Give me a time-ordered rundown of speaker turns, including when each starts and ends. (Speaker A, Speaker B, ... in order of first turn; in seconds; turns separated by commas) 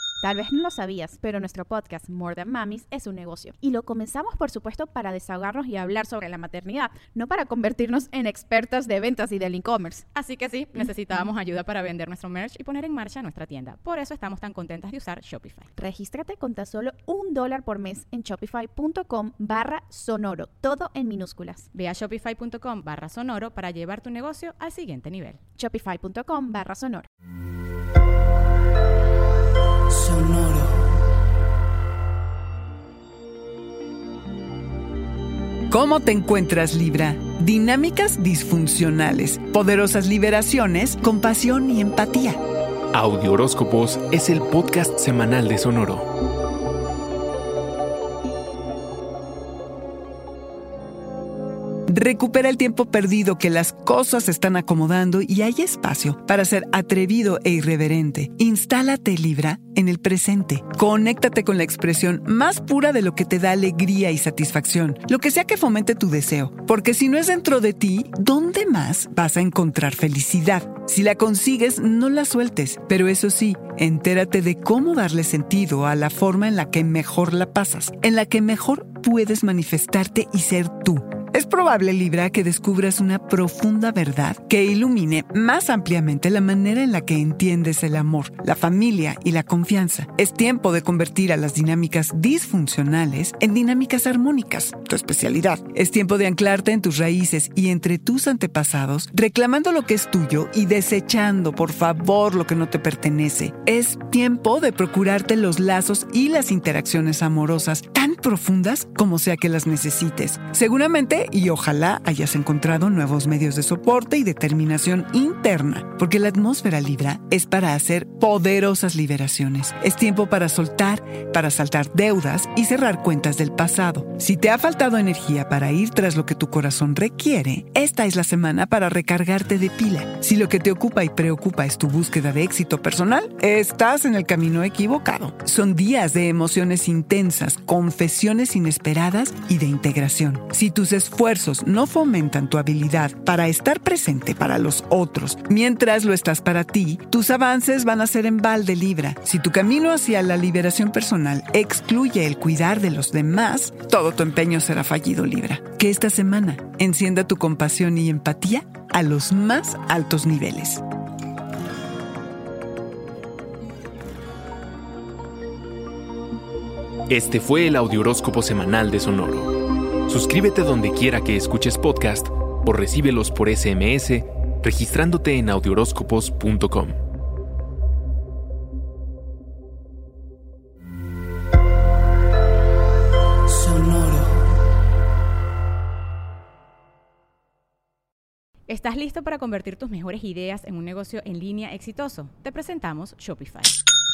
Speaker A: 0.2-10.0, Speaker B: 10.1-15.7, Speaker A: 15.8-21.7, Speaker B: 21.7-25.4, Speaker A: 25.6-27.1, Speaker C: 35.7-42.4, Speaker D: 42.9-46.1, Speaker C: 51.9-160.8, Speaker D: 167.1-169.5, Speaker D: 170.1-177.0, Speaker B: 188.7-193.7